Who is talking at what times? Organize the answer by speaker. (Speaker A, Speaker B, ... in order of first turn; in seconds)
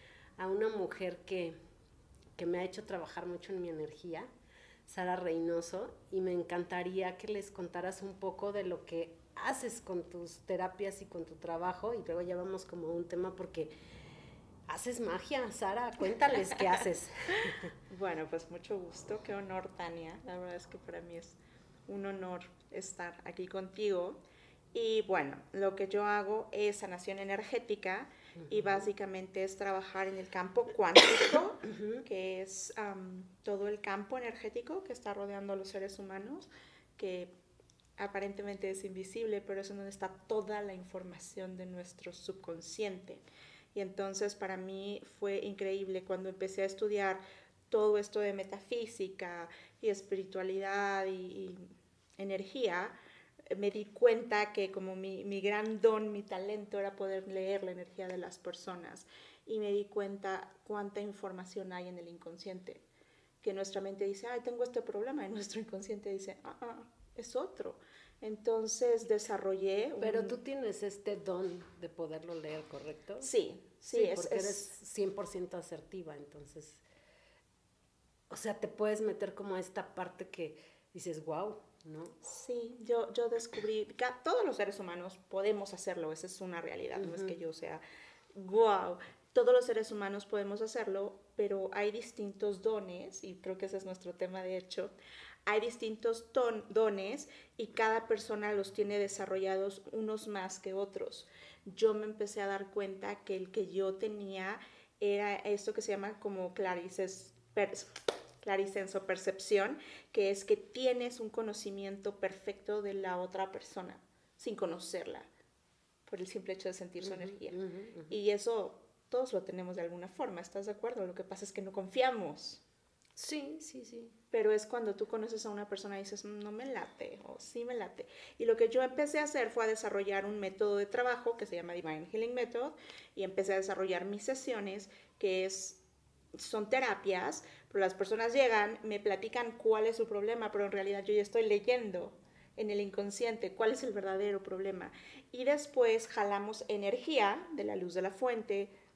Speaker A: 0.4-1.6, 2.4-4.3, 4.9-13.7, 14.7-17.8, 28.4-28.8, 31.7-32.0, 70.0-73.3, 73.9-76.8, 78.3-82.2, 87.0-87.4, 117.0-118.2, 123.2-124.2
Speaker B: 17.9-24.2, 24.7-37.3, 38.0-51.6, 52.2-53.0, 53.5-62.8, 63.4-70.4, 73.2-74.7, 82.2-87.8, 88.3-95.0, 95.5-115.3, 116.1-122.6, 124.3-135.8, 136.3-148.7